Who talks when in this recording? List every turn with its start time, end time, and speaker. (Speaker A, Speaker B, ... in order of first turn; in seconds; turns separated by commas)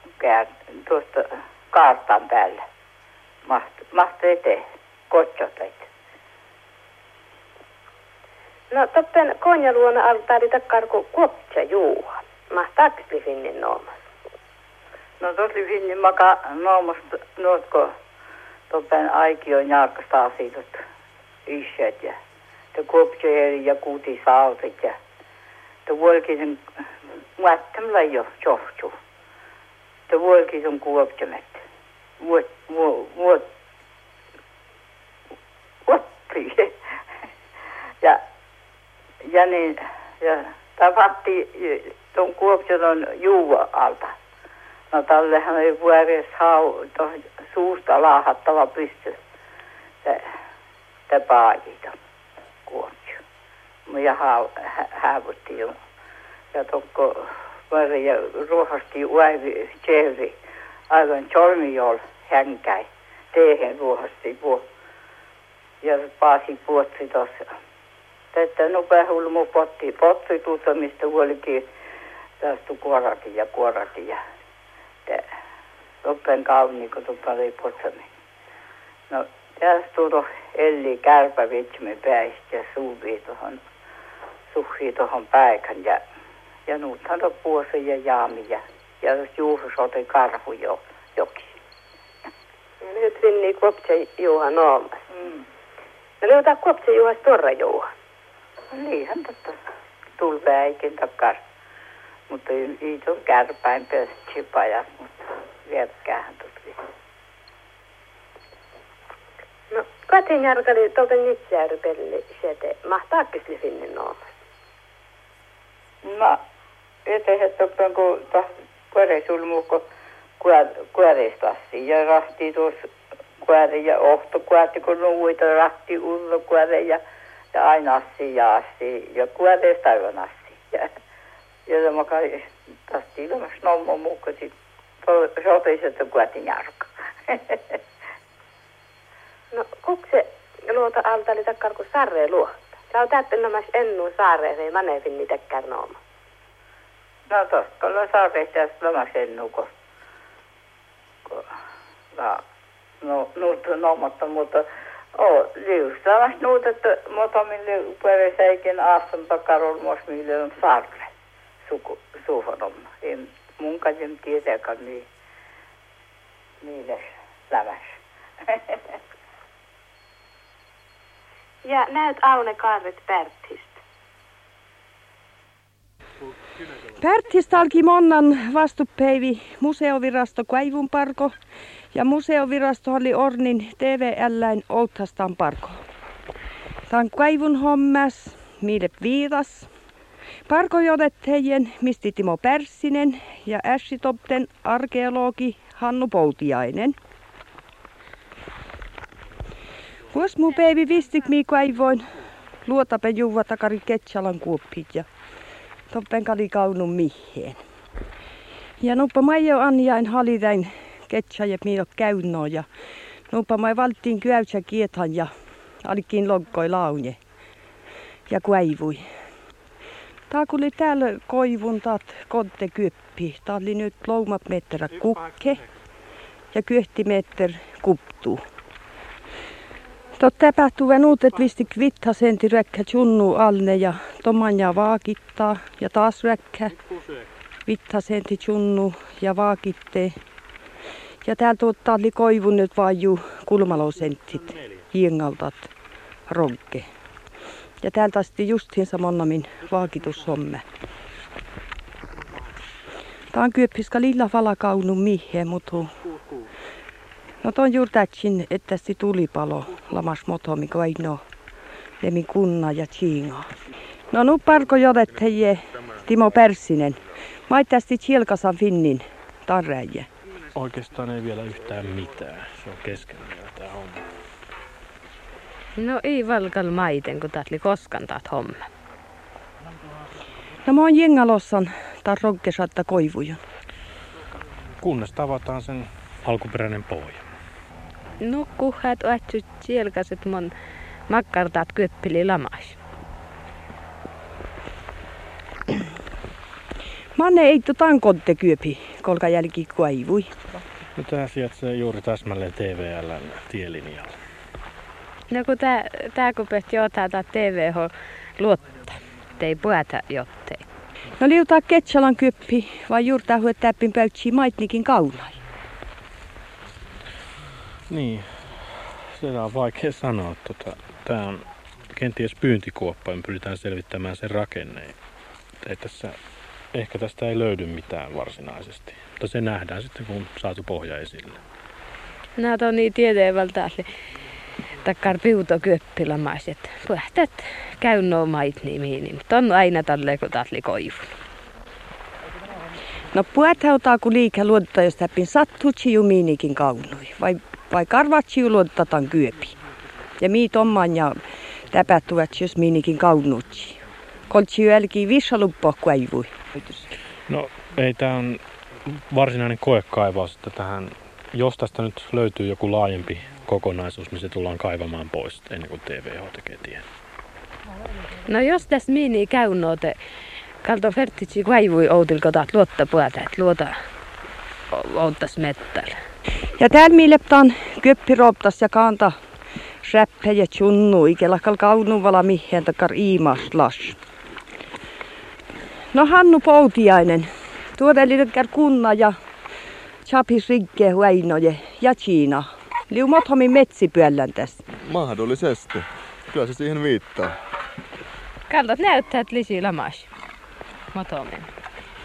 Speaker A: 0.2-2.6, Speaker A: 3.5-5.9, Speaker B: 8.7-13.9, Speaker A: 15.2-17.9, Speaker A: 18.7-20.8, Speaker A: 21.5-22.2, Speaker A: 22.7-25.0, Speaker A: 25.9-26.6, Speaker A: 27.4-28.9, Speaker A: 30.1-31.6, Speaker A: 32.2-33.5, Speaker A: 35.9-36.7, Speaker A: 39.2-44.1, Speaker A: 44.9-49.2, Speaker A: 50.0-50.3, Speaker A: 51.1-52.0, Speaker A: 52.7-53.2, Speaker A: 53.9-55.8, Speaker A: 56.5-60.4, Speaker A: 60.9-64.7, Speaker A: 65.8-67.5, Speaker A: 68.3-71.7, Speaker A: 72.4-74.2, Speaker A: 76.0-78.1, Speaker A: 79.1-83.6, Speaker A: 84.5-86.0, Speaker A: 86.7-91.5, Speaker B: 92.8-95.0, Speaker A: 95.1-95.4, Speaker B: 96.2-97.9, Speaker A: 98.7-99.6, Speaker A: 100.2-101.4, Speaker A: 102.3-106.8, Speaker B: 109.7-114.3, Speaker A: 116.0-116.4, Speaker A: 117.1-119.9, Speaker A: 120.4-122.9, Speaker A: 123.4-127.0, Speaker A: 127.5-130.9, Speaker A: 131.7-137.8, Speaker B: 139.5-146.0, Speaker A: 147.3-149.7, Speaker A: 152.2-152.4, Speaker A: 153.0-161.1, Speaker A: 161.6-165.1, Speaker A: 166.6-168.8, Speaker B: 171.7-173.8, Speaker C: 176.9-181.3, Speaker C: 181.9-185.8, Speaker C: 186.9-189.7, Speaker C: 190.5-197.0, Speaker C: 200.1-202.1, Speaker C: 202.6-205.1, Speaker C: 205.9-207.6, Speaker C: 208.8-212.7, Speaker C: 213.3-215.3, Speaker C: 215.8-217.2, Speaker C: 218.3-219.0, Speaker C: 220.3-225.7, Speaker C: 226.5-228.4, Speaker C: 230.2-236.8, Speaker C: 237.7-240.2, Speaker C: 241.2-245.7, Speaker C: 246.3-246.9, Speaker C: 247.8-250.7, Speaker C: 253.3-255.9, Speaker C: 257.4-261.2, Speaker C: 262.0-263.5, Speaker C: 264.1-270.1, Speaker D: 270.5-274.0, Speaker E: 275.8-278.6, Speaker C: 280.6-283.4, Speaker D: 284.8-287.2, Speaker E: 288.2-290.5, Speaker E: 291.1-292.8, Speaker C: 297.1-300.5, Speaker D: 301.0-304.1, Speaker E: 305.3-310.6, Speaker C: 311.2-315.4, Speaker D: 317.9-318.5, Speaker D: 319.1-325.0, Speaker D: 325.6-326.2, Speaker D: 326.7-331.4, Speaker E: 332.4-333.9, Speaker E: 334.8-341.1, Speaker C: 343.1-349.6, Speaker C: 350.2-356.9, Speaker D: 357.3-366.8, Speaker E: 368.2-370.0, Speaker E: 370.6-373.8, Speaker E: 374.7-375.9, Speaker C: 376.6-379.2, Speaker C: 379.8-384.0, Speaker C: 385.9-389.2, Speaker C: 390.1-394.6, Speaker F: 394.8-397.4, Speaker E: 398.5-400.1, Speaker E: 400.9-401.5